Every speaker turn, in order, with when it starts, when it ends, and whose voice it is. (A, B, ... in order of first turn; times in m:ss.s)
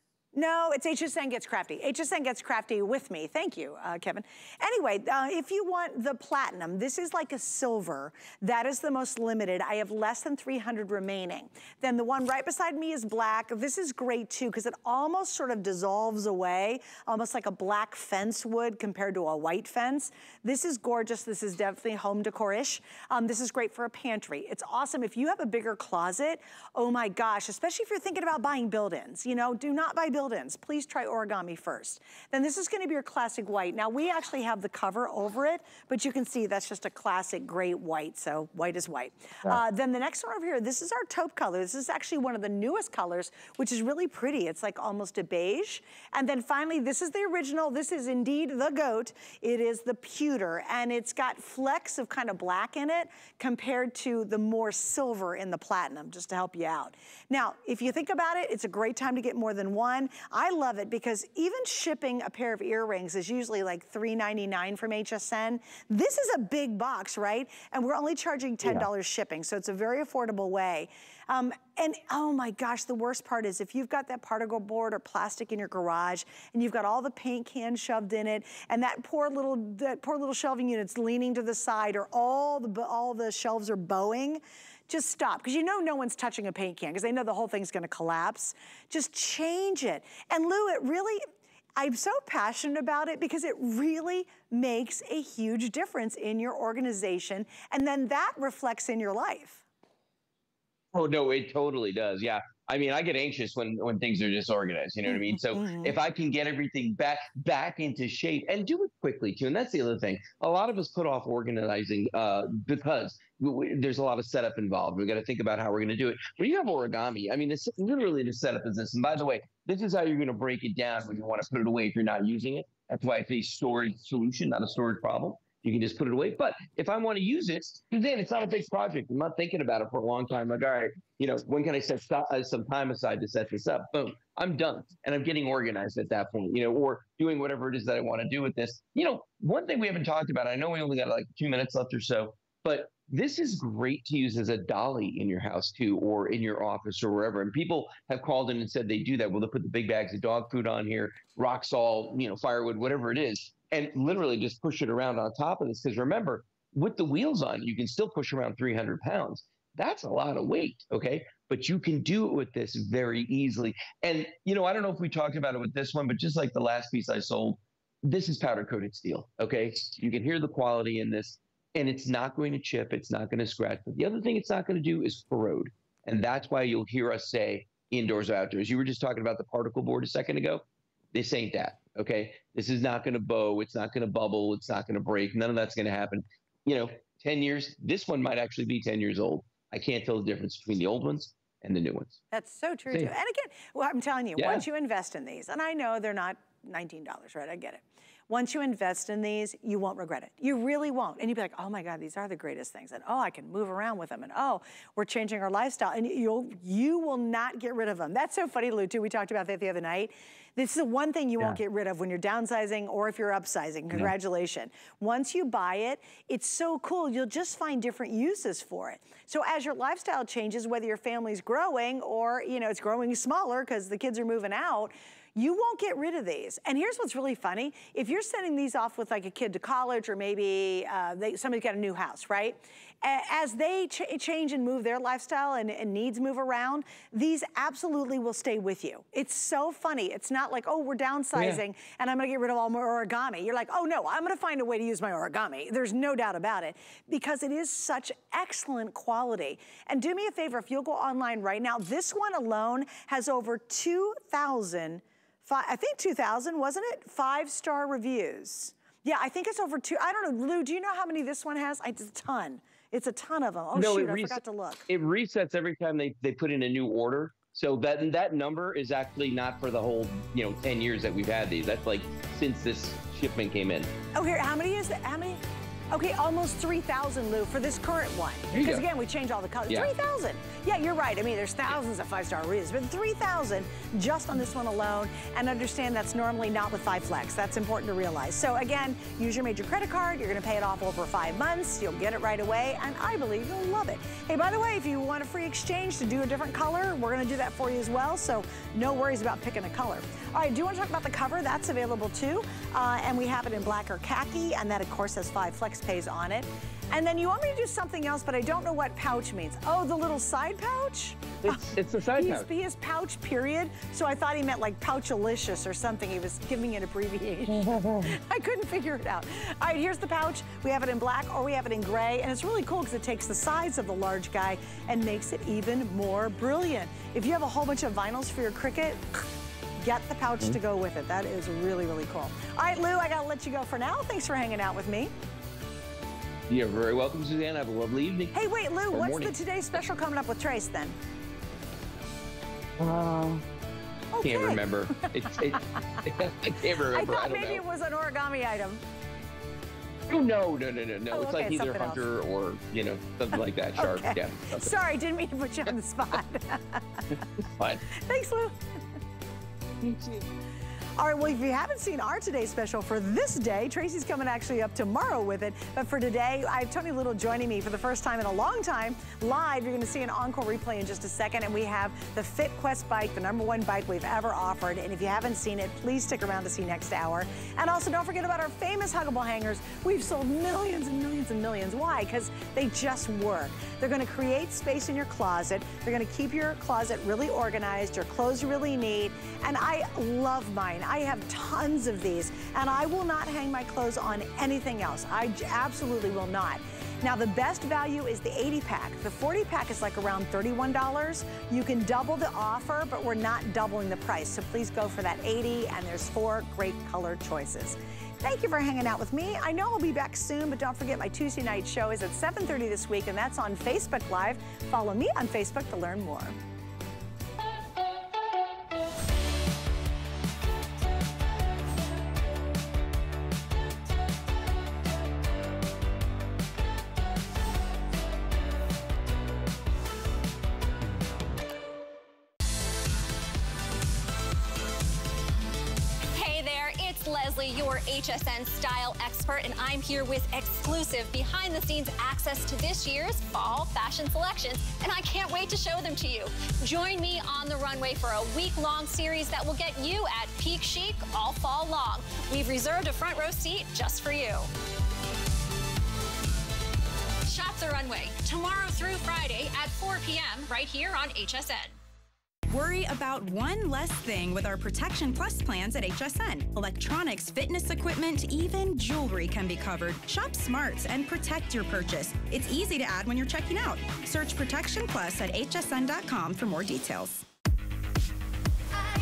0:00.3-1:31.2 A
1:31.8-1:39.6 A
1:40.9-3:12.2 B
1:45.1-1:46.0 A
3:12.3-4:24.9 A
3:14.4-3:14.6 B
4:23.7-4:33.9 B
4:34.1-5:29.3 A
4:38.5-4:38.8 B
5:11.4-5:12.5 B
5:17.6-5:18.1 B
5:29.8-5:35.1 A
5:36.5-5:38.4 B
5:38.3-5:41.0 A
5:38.9-5:39.3 B
5:42.8-5:43.5 B
5:44.1-5:46.1 A
5:44.2-5:47.6 B
5:46.9-5:48.8 A
5:50.1-5:54.7 B
5:51.1-5:52.0 A
5:53.8-5:57.0 A
5:57.1-5:57.8 B
5:57.9-5:58.6 A
5:59.8-6:00.2 B
6:01.0-6:56.4 A
7:16.1-7:34.5 C
7:37.2-7:41.8 C
7:42.5-7:57.3 D